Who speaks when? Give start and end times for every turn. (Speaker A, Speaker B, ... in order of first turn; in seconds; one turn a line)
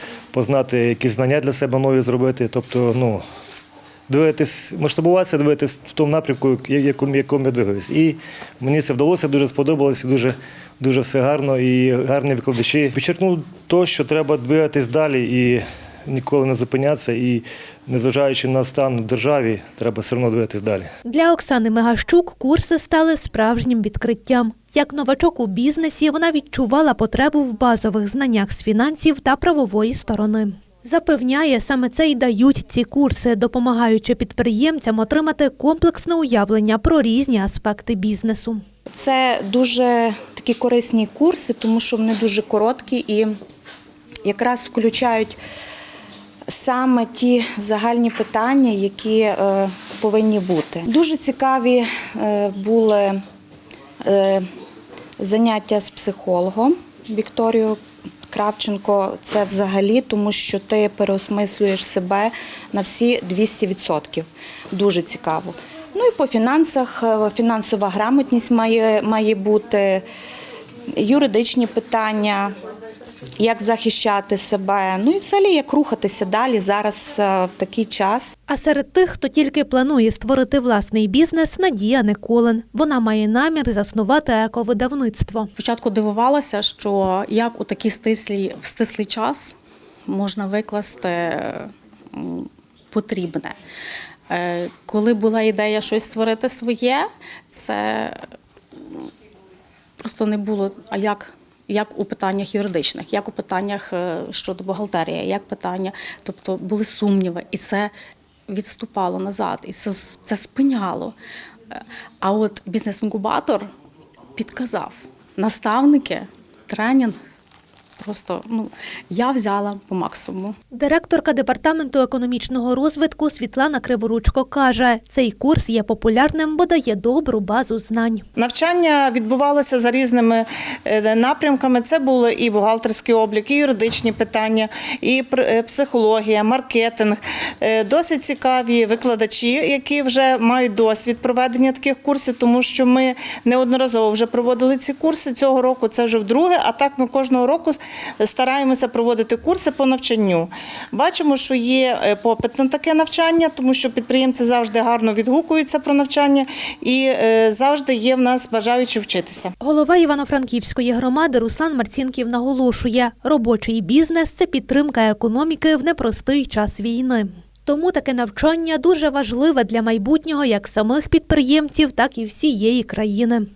Speaker A: 0.3-3.2
Speaker A: 4.1-20.9
Speaker B: 21.1-38.6
Speaker C: 39.0-43.3
Speaker C: 44.2-45.4
Speaker C: 46.5-53.2
Speaker C: 54.0-54.5
Speaker C: 55.2-57.8
Speaker C: 58.3-70.0
Speaker C: 70.9-72.5
Speaker C: 73.4-78.3
Speaker B: 78.5-85.5
Speaker D: 85.6-89.6
Speaker D: 90.1-93.6
Speaker D: 94.3-98.3
Speaker D: 100.0-107.9
Speaker D: 108.5-111.2
Speaker D: 112.2-113.7
Speaker D: 114.3-117.2
Speaker D: 118.0-120.5
Speaker B: 120.7-128.2
Speaker E: 128.4-159.5
Speaker B: 159.6-173.5